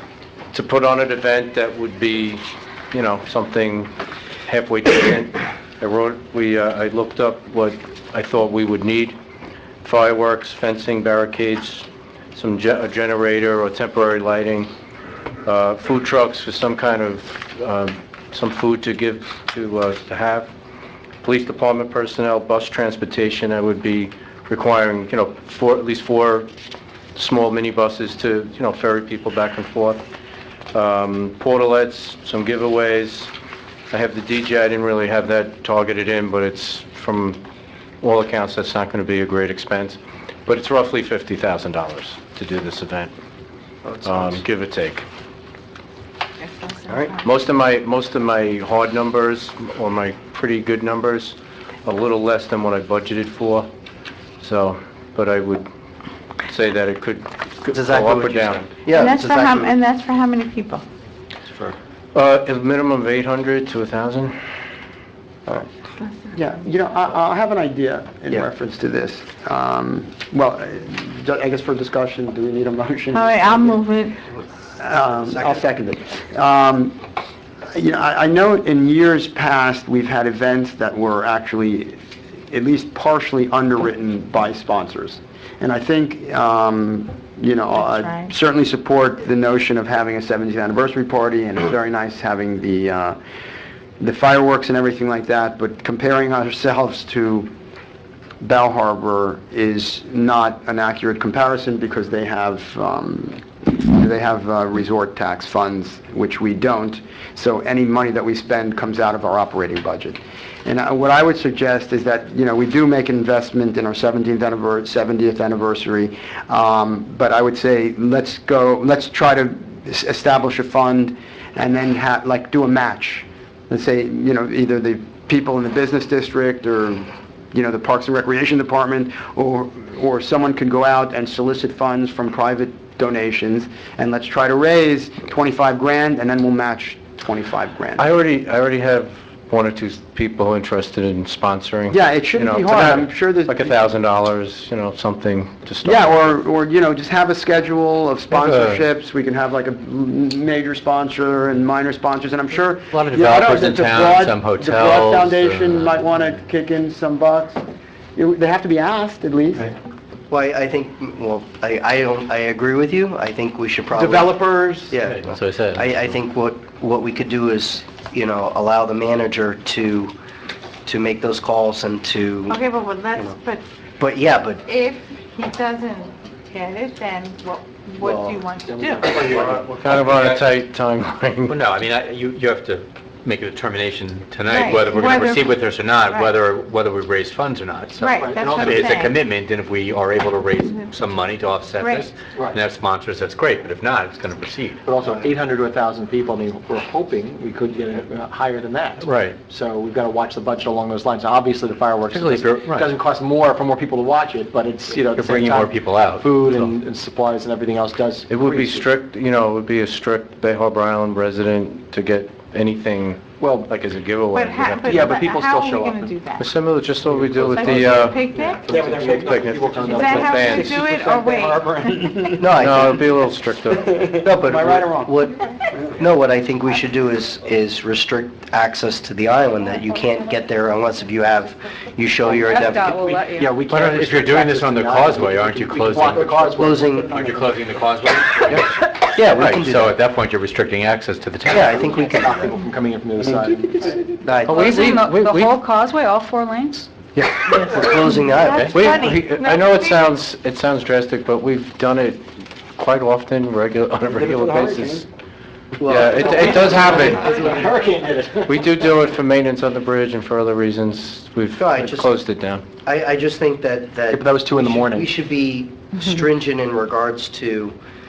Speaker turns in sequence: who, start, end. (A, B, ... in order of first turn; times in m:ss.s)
0:00.5-0:03.9 A
0:04.5-0:09.1 A
0:09.8-0:14.7 A
0:15.4-0:20.5 A
0:21.2-0:26.5 A
0:27.1-0:30.0 A
0:30.7-0:33.3 A
0:33.9-0:37.4 A
0:38.0-0:43.1 A
0:43.8-0:44.4 B
0:44.0-0:45.0 A
0:46.4-0:47.2 C
0:47.2-0:53.7 A
0:54.4-0:55.7 A
0:56.5-0:58.7 A
0:57.7-0:59.7 B
0:58.9-1:00.8 C
1:01.4-1:01.8 B
1:02.1-1:04.4 A
1:06.3-1:13.8 D
1:13.1-1:14.2 C
1:14.8-1:17.0 D
1:15.3-1:15.6 B
1:17.7-1:22.0 D
1:22.5-1:33.2 D
1:27.8-1:28.3 C
1:34.0-1:37.5 D
1:38.4-2:18.0 D
2:18.0-2:26.2 A
2:21.9-2:23.8 D
2:25.8-2:37.6 D
2:28.3-2:28.8 E
2:32.9-2:36.0 E
2:38.1-2:39.7 D
2:40.3-2:50.1 B
2:43.9-2:44.9 D
2:45.2-2:45.8 E
2:50.8-2:52.6 B
2:52.5-2:53.6 C
2:54.0-2:54.6 B
2:54.6-2:59.2 C
2:58.0-2:58.3 B
2:59.0-3:00.6 E
2:59.3-3:01.6 A
3:01.5-3:14.8 E
3:04.4-3:06.3 C
3:08.0-3:09.2 C
3:08.2-3:08.8 F
3:11.8-3:12.1 C
3:14.8-3:28.9 F
3:19.0-3:19.4 E
3:22.1-3:22.9 E
3:24.9-3:26.7 E
3:28.3-3:35.2 A
3:33.4-3:33.7 F
3:34.3-3:36.6 C
3:34.9-3:36.2 F
3:36.4-3:38.3 A
3:37.0-3:37.9 F
3:37.4-3:38.8 C
3:38.5-3:40.3 F
3:38.7-3:39.1 D
3:39.0-3:40.8 A
3:39.7-3:43.0 D
3:39.8-3:41.9 C
3:40.3-3:40.6 G
3:42.4-3:43.0 B
3:42.6-3:44.0 A
3:43.6-3:46.0 D
3:44.2-3:53.1 B
3:52.2-3:53.5 C
3:52.5-3:53.4 G
3:53.2-3:57.1 F
3:53.6-3:56.5 E
3:56.2-3:57.5 D
3:56.5-3:57.2 B
3:57.0-4:02.1 E
3:58.4-4:00.0 B
4:01.5-4:02.5 B
4:02.1-4:03.9 F
4:04.2-4:05.1 B
4:04.4-4:06.9 G
4:04.5-4:05.5 A
4:07.1-4:08.9 B
4:07.6-4:10.2 C
4:08.5-4:08.8 E
4:08.7-4:15.1 A
4:14.1-4:15.0 D
4:15.8-4:17.6 B
4:15.8-4:17.5 A
4:16.4-4:18.6 F
4:16.6-4:17.4 G
4:18.4-4:22.6 A
4:21.6-4:22.1 B
4:22.8-4:27.8 B
4:24.1-4:25.1 F